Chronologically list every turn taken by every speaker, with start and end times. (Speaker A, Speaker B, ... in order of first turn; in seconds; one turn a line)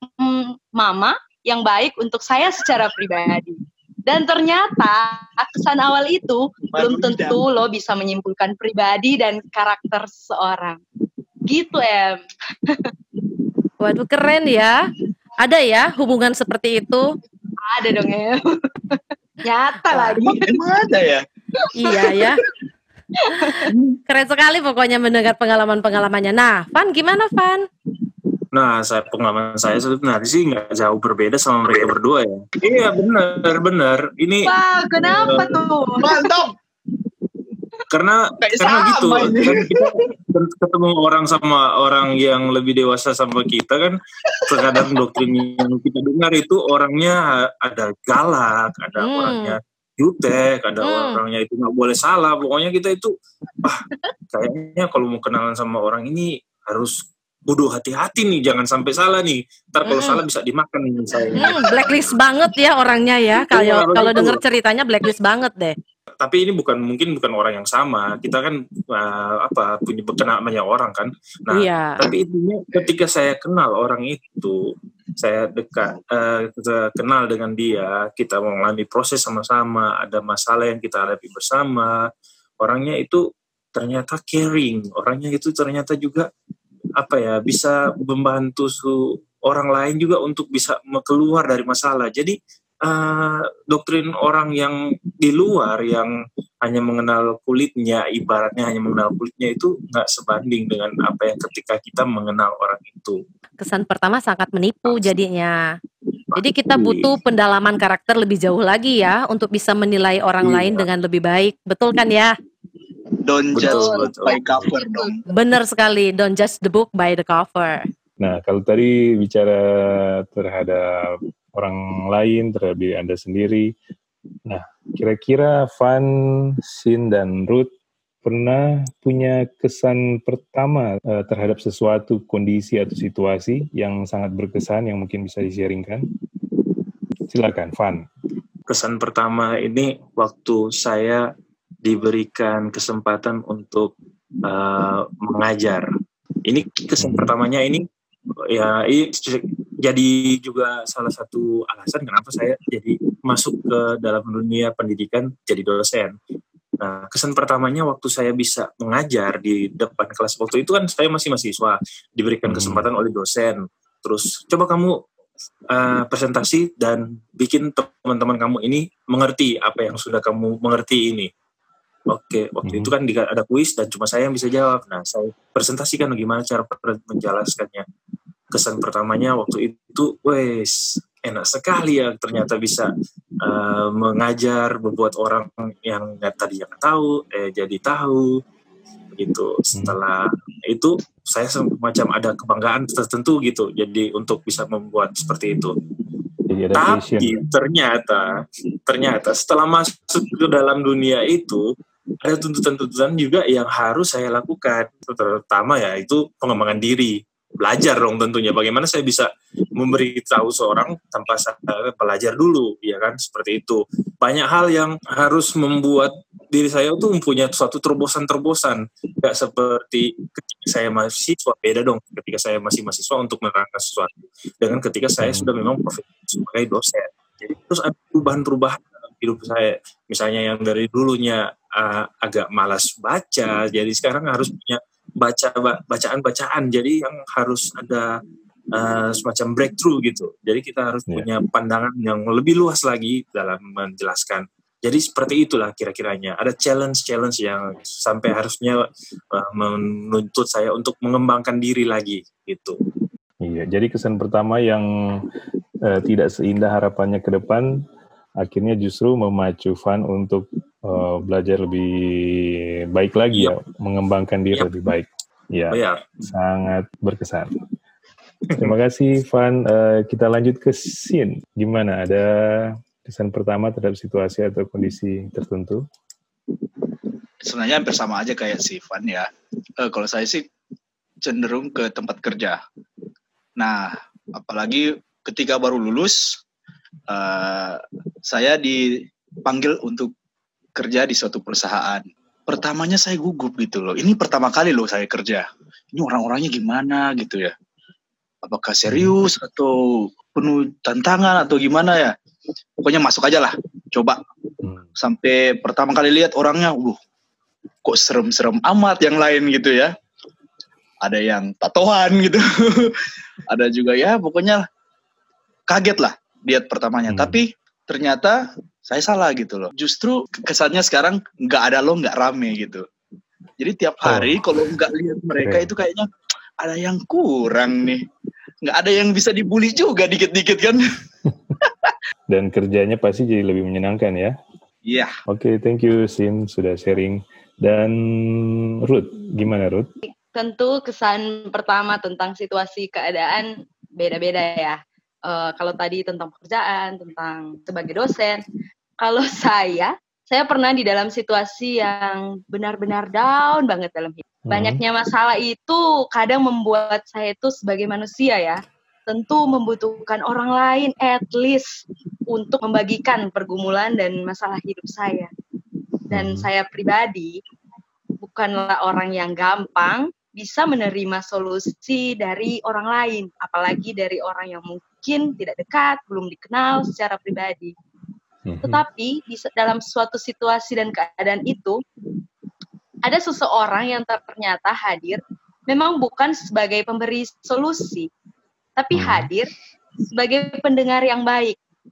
Speaker A: 0.2-10.8
Speaker B: 6.7-7.4
Speaker A: 11.5-12.8
Speaker C: 13.8-14.8
Speaker C: 15.4-17.1
Speaker A: 17.6-20.2
Speaker B: 19.9-21.2
Speaker C: 21.8-22.4
Speaker C: 24.1-27.6
Speaker D: 28.5-35.6
Speaker A: 34.5-36.0
Speaker B: 36.0-36.5
Speaker D: 37.9-43.9
Speaker B: 38.4-39.8
Speaker D: 44.5-53.1
Speaker B: 44.5-45.2
Speaker C: 49.0-49.6
Speaker C: 50.8-51.2
Speaker D: 54.3-56.9
Speaker D: 57.5-62.1
Speaker C: 59.9-60.2
Speaker C: 61.4-65.8
Speaker D: 63.4-64.4
Speaker D: 66.2-74.6
Speaker C: 71.5-72.0
Speaker D: 75.2-81.9
Speaker D: 82.6-83.2
Speaker D: 83.7-86.2
Speaker D: 87.0-92.3
Speaker D: 92.9-96.1
Speaker D: 96.6-103.2
Speaker C: 103.6-105.6
Speaker D: 104.8-105.1
Speaker D: 106.3-107.1
Speaker C: 106.3-112.3
Speaker E: 110.4-110.9
Speaker B: 113.2-115.2
Speaker D: 113.5-114.5
Speaker A: 113.8-115.1
Speaker C: 115.3-117.8
Speaker E: 118.2-123.7
Speaker E: 124.5-126.1
Speaker E: 126.6-127.7
Speaker E: 128.2-136.0
Speaker E: 137.3-138.1
Speaker D: 138.7-141.2
Speaker D: 141.8-143.9
Speaker D: 144.4-145.8
Speaker D: 146.4-147.8
Speaker E: 147.0-147.3
Speaker D: 148.5-156.1
Speaker D: 156.8-164.9
Speaker E: 162.4-162.9
Speaker D: 165.7-171.3
Speaker D: 172.1-177.8
Speaker E: 172.6-172.9
Speaker D: 178.5-182.9
Speaker D: 183.4-188.3
Speaker D: 189.1-195.7
Speaker E: 196.5-197.4
Speaker D: 196.7-198.2
Speaker D: 198.9-201.6
Speaker D: 202.2-238.1
Speaker E: 225.2-225.5
Speaker D: 238.7-248.8
Speaker D: 249.3-252.8
Speaker E: 253.4-254.8
Speaker E: 255.9-257.7
Speaker E: 258.4-267.5
Speaker D: 265.7-266.3
Speaker E: 268.6-275.8
Speaker B: 277.4-279.3
Speaker B: 279.8-280.4
Speaker B: 281.2-282.6
Speaker B: 283.6-286.4
Speaker B: 287.1-290.1
Speaker B: 290.8-297.5
Speaker B: 298.4-302.1
Speaker E: 298.9-299.1
Speaker B: 302.8-304.2
Speaker E: 304.6-304.9
Speaker B: 305.0-307.0
Speaker B: 307.8-309.9
Speaker B: 311.0-313.0
Speaker B: 313.5-314.6
Speaker B: 315.7-322.8
Speaker E: 317.1-317.4
Speaker B: 323.6-326.1
Speaker E: 324.0-324.7
Speaker E: 325.4-325.7
Speaker B: 326.6-328.0
Speaker B: 328.6-330.8
Speaker E: 332.3-334.3
Speaker B: 334.8-335.1
Speaker E: 335.3-339.9
Speaker A: 340.1-348.4
Speaker A: 349.0-365.3
Speaker E: 354.5-354.8
Speaker A: 366.1-367.3
Speaker E: 366.1-366.5
Speaker A: 368.2-377.7
Speaker E: 378.4-378.8
Speaker A: 378.6-381.8
Speaker A: 383.0-388.1
Speaker A: 388.8-389.5
Speaker E: 388.9-389.3
Speaker A: 390.1-391.6